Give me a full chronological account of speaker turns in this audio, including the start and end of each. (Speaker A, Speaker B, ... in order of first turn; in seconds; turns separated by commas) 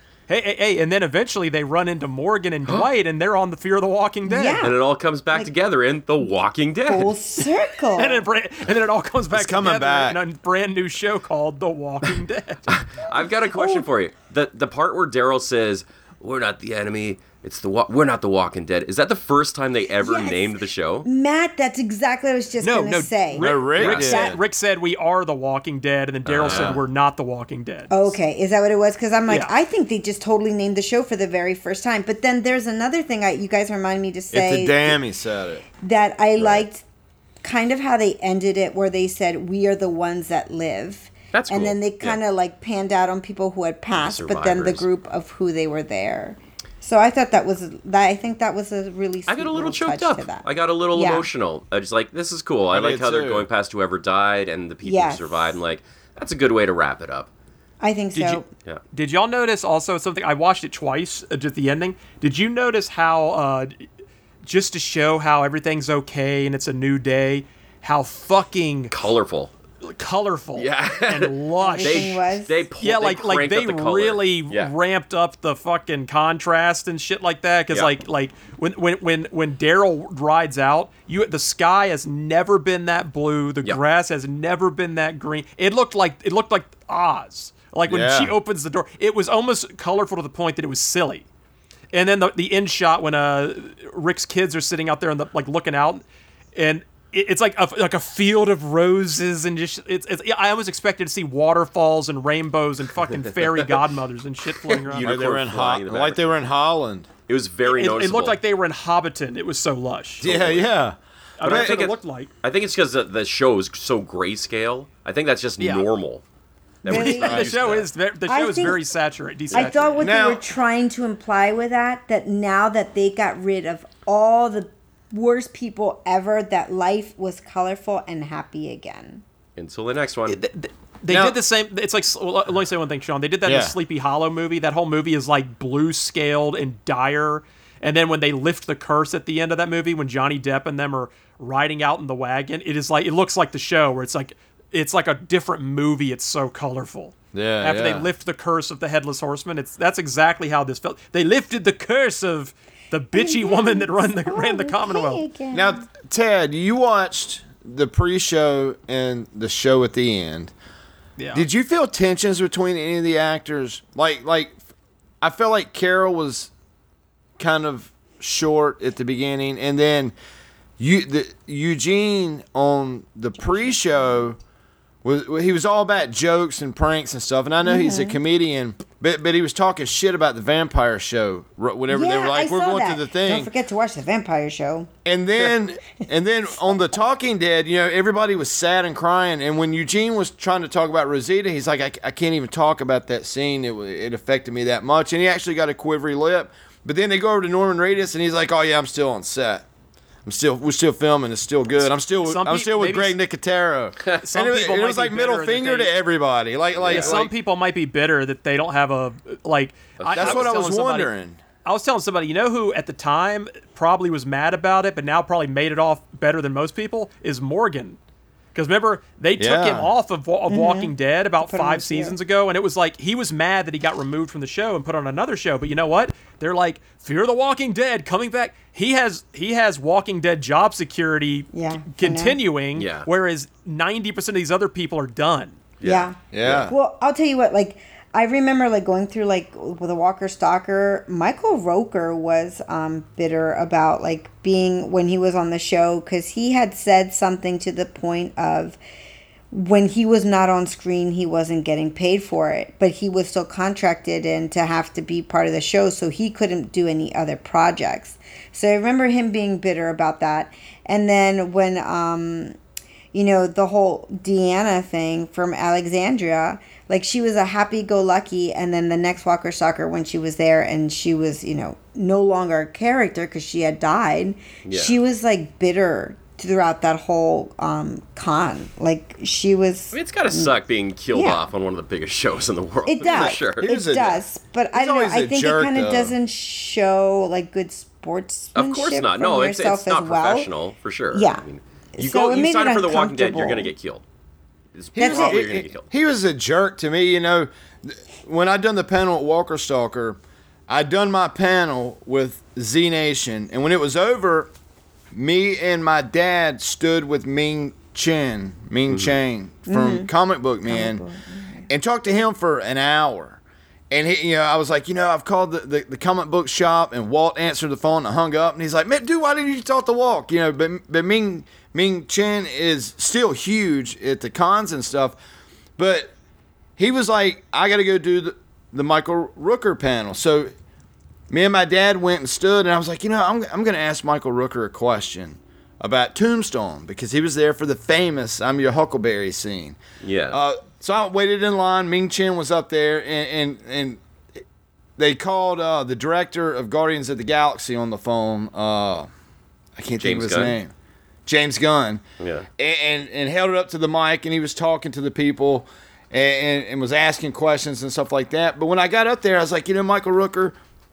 Speaker A: 0.3-4.6, Speaker B: 4.2-4.8, Speaker C: 4.6-7.1, Speaker B: 6.8-8.2, Speaker A: 7.9-12.7, Speaker D: 9.3-10.2, Speaker C: 12.7-21.1, Speaker B: 13.5-13.8, Speaker B: 20.0-24.4, Speaker A: 22.6-28.2, Speaker D: 23.4-24.4, Speaker C: 26.2-26.8, Speaker D: 26.4-26.8, Speaker B: 27.9-35.0, Speaker A: 29.3-29.5, Speaker D: 34.3-35.6, Speaker B: 35.8-36.8, Speaker C: 36.4-36.6, Speaker B: 37.4-51.3, Speaker C: 41.3-42.2, Speaker C: 43.9-44.9, Speaker C: 49.3-57.3, Speaker D: 52.7-53.5, Speaker B: 54.8-55.5, Speaker B: 57.8-58.5, Speaker A: 58.1-58.4, Speaker A: 58.9-63.8, Speaker A: 64.4-68.9, Speaker C: 68.9-69.5, Speaker A: 69.8-72.2, Speaker C: 70.5-74.7, Speaker B: 71.6-72.6, Speaker A: 72.8-91.2, Speaker D: 87.9-88.3, Speaker A: 91.9-96.0, Speaker A: 96.5-105.1, Speaker C: 104.6-106.2, Speaker D: 105.0-107.1, Speaker C: 107.3-108.4, Speaker A: 107.6-110.3, Speaker C: 110.2-110.7, Speaker D: 110.2-111.8, Speaker A: 111.4-112.3, Speaker C: 111.4-116.2, Speaker A: 115.6-115.9, Speaker C: 116.8-117.9, Speaker B: 116.9-117.4, Speaker A: 116.9-120.0, Speaker D: 117.1-117.6, Speaker B: 118.3-118.8, Speaker B: 119.5-129.2, Speaker D: 120.0-120.5, Speaker C: 129.6-130.4, Speaker A: 130.3-155.2, Speaker D: 131.1-131.4, Speaker D: 133.4-133.8, Speaker D: 147.3-148.1, Speaker B: 153.1-155.8, Speaker D: 155.5-160.5, Speaker A: 161.2-161.4, Speaker D: 161.3-164.6, Speaker D: 165.2-166.5, Speaker D: 167.4-170.1, Speaker D: 170.8-174.4, Speaker D: 175.0-183.5, Speaker B: 177.6-178.2, Speaker B: 181.9-184.9, Speaker D: 185.0-199.7, Speaker D: 200.2-207.3, Speaker A: 201.8-203.2, Speaker A: 204.2-205.9, Speaker C: 206.8-207.2, Speaker A: 206.9-211.1, Speaker C: 210.0-210.5, Speaker D: 210.1-211.4, Speaker A: 211.6-218.0, Speaker A: 218.5-235.6, Speaker D: 219.4-219.9, Speaker B: 220.5-222.2, Speaker B: 231.5-232.4, Speaker C: 232.8-233.1, Speaker C: 235.8-236.7, Speaker B: 235.8-236.2, Speaker D: 236.3-236.7, Speaker B: 236.7-248.8, Speaker B: 249.5-262.5, Speaker B: 263.1-280.5, Speaker C: 274.6-275.0, Speaker C: 279.9-283.7, Speaker B: 281.1-281.4, Speaker B: 282.9-290.5, Speaker D: 283.0-284.2, Speaker D: 284.7-286.1, Speaker C: 288.5-294.0, Speaker B: 291.1-291.4, Speaker B: 292.0-293.7, Speaker C: 294.7-295.9, Speaker D: 294.9-304.5, Speaker B: 295.0-295.4, Speaker D: 305.1-311.0, Speaker B: 309.7-310.1, Speaker B: 310.6-311.7, Speaker D: 311.7-313.4, Speaker D: 313.9-325.2, Speaker D: 325.8-326.1, Speaker D: 326.8-330.5, Speaker D: 331.3-339.8, Speaker C: 340.0-340.4, Speaker D: 340.3-344.0, Speaker D: 345.0-349.1, Speaker D: 349.8-350.7, Speaker C: 350.0-350.6, Speaker D: 351.2-352.0, Speaker C: 352.2-352.5, Speaker D: 352.6-360.6